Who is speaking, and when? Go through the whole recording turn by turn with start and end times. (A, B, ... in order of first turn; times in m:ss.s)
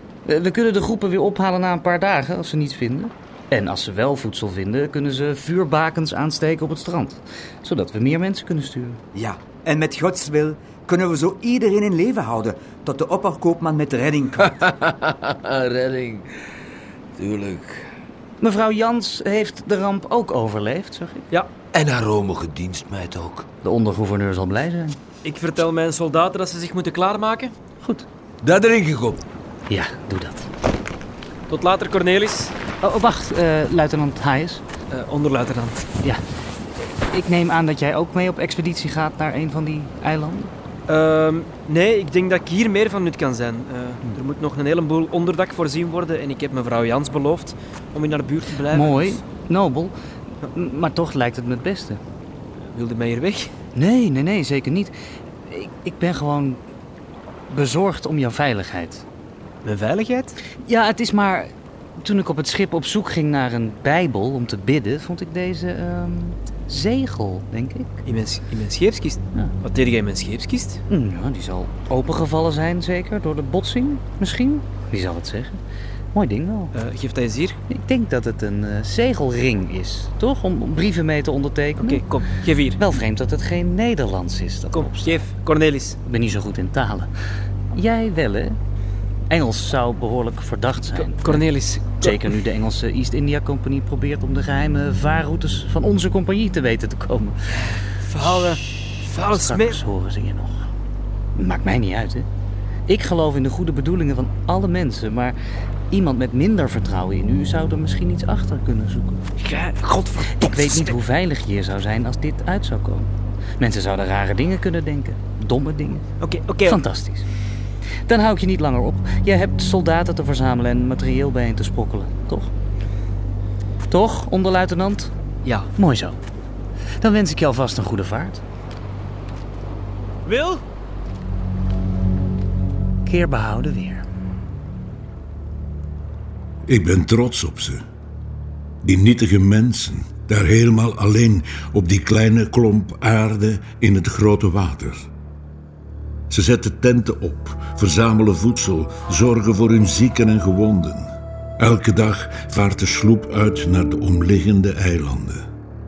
0:00.3-0:09.0 A
0:09.1-0:14.5 B
0:14.6-0:16.3 C
0:17.2-0:17.8 C
0:18.4-0:21.3 A
0:21.7-0:23.5 C
0:23.6-0:25.0 A
0:25.2-0:27.5 D
0:28.4-0:29.2 C
0:29.7-0:30.5 A
0:31.5-0:32.5 D
0:32.8-0:34.6 A
0:34.9-0:35.9 D
0:37.1-0:40.5 A
0:40.9-0:49.2 D
0:48.7-0:49.9 A
0:50.5-0:52.0 A
0:52.7-0:53.5 D
0:53.8-0:54.9 A
0:55.5-0:56.6 A
0:57.5-0:59.0 A
0:59.6-1:00.4 D
1:00.6-1:08.0 A
1:08.0-1:10.8 D
1:10.9-1:15.6 A
1:16.1-1:16.7 A
1:16.8-1:17.6 D
1:17.7-1:22.0 A
1:21.8-1:22.8 D
1:22.8-1:25.3 A
1:24.7-1:26.0 D
1:26.0-1:27.1 A
1:27.7-1:28.6 A
1:29.3-1:31.4 A
1:31.0-1:32.2 D
1:32.0-1:37.6 A
1:38.1-1:39.8 D
1:39.3-1:40.6 A
1:41.4-1:42.3 A
1:42.9-1:45.4 A
1:45.9-1:49.2 A
1:49.4-1:51.0 D
1:50.3-1:56.0 A
1:56.2-1:56.8 D
1:56.6-1:57.3 A
1:58.1-2:02.5 A
2:03.9-2:05.1 A
2:05.8-2:06.2 A
2:07.0-2:08.4 A
2:10.3-2:10.6 D
2:13.0-2:14.1 A
2:16.7-2:17.8 E
2:18.8-2:25.0 E
2:26.3-2:31.1 E
2:31.6-2:35.4 E